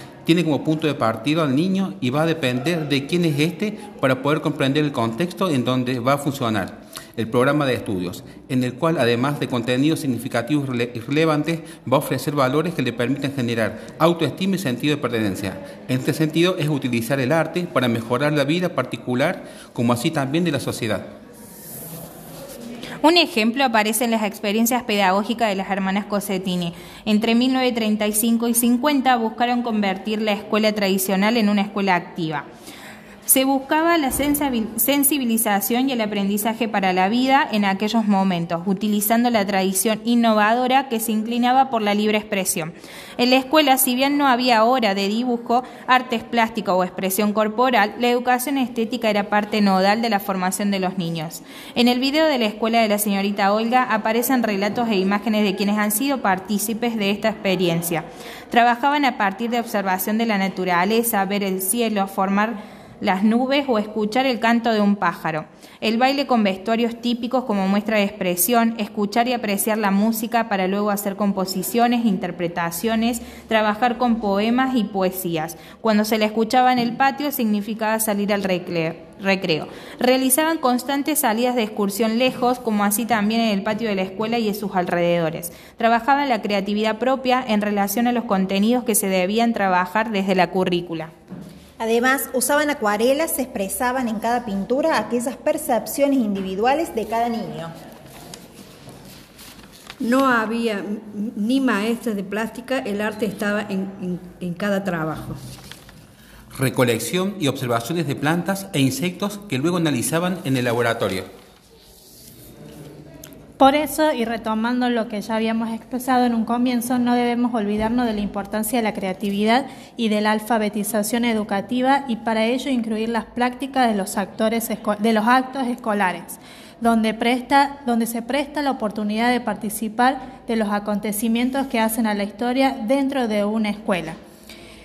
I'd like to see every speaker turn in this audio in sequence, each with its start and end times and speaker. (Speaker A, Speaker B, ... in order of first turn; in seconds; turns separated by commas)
Speaker A: 0.2-21.1, Speaker B: 23.0-32.5, Speaker B: 33.2-91.1, Speaker C: 91.8-97.7, Speaker D: 100.0-105.4, Speaker A: 106.5-111.3, Speaker E: 113.6-134.2